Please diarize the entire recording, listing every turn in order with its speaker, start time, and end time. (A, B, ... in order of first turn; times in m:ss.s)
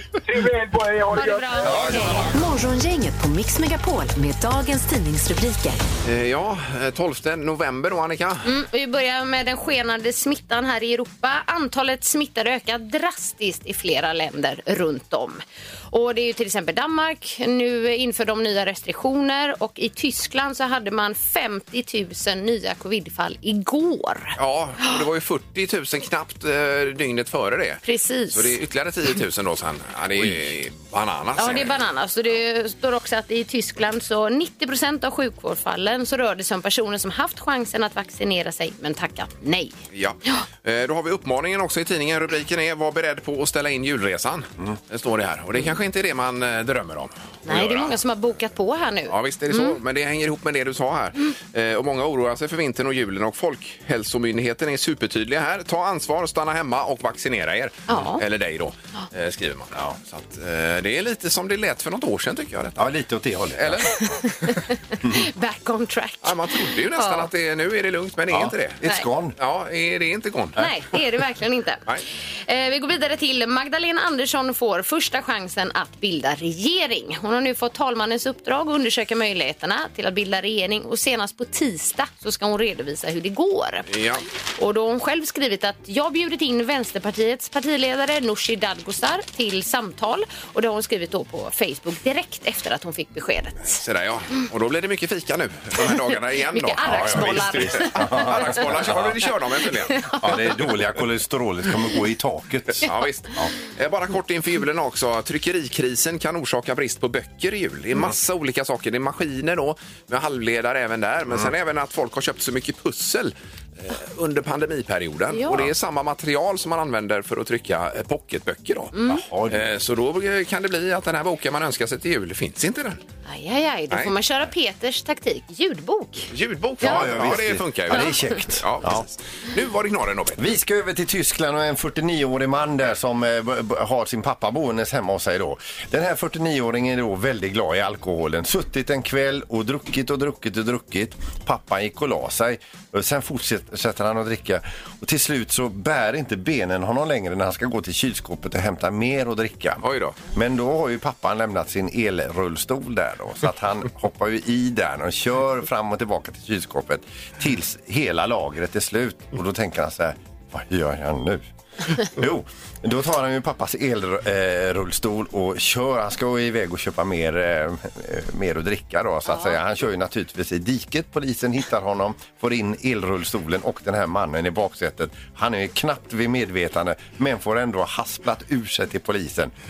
0:00.2-0:02.2 A
0:01.1-0:02.3 B
0:01.6-0:02.4 C
0:02.3-0:05.8 D
0:06.0-0:08.5 E
0:08.4-0:24.4 B
0:24.4-0:31.8 E
0:27.8-0:28.5 B
0:31.4-0:40.4 B
0:39.9-0:48.0 E
0:47.5-0:49.8 B
0:49.1-1:02.9 E
0:57.9-0:58.2 B
1:02.8-1:04.0 C
1:03.6-1:04.1 E
1:04.1-1:07.3 B
1:05.0-1:05.3 C
1:06.2-1:10.6 E
1:08.3-1:09.4 C
1:10.6-1:11.8 B
1:12.5-1:23.9 B
1:23.9-1:24.2 E
1:24.6-1:33.8 B
1:33.7-1:40.1 E
1:36.5-1:38.6 B
1:36.8-1:39.2 C
1:39.9-1:40.5 B
1:40.2-1:43.5 C
1:42.8-1:58.9 E
1:55.3-1:55.7 B
1:58.9-1:59.2 B
1:59.0-1:59.7 C
1:59.5-2:03.0 E
2:03.3-2:06.3 B
2:06.3-2:10.4 E
2:06.8-2:09.0 C
2:10.4-2:41.4 C
2:29.8-2:30.2 E
2:42.0-2:59.5 C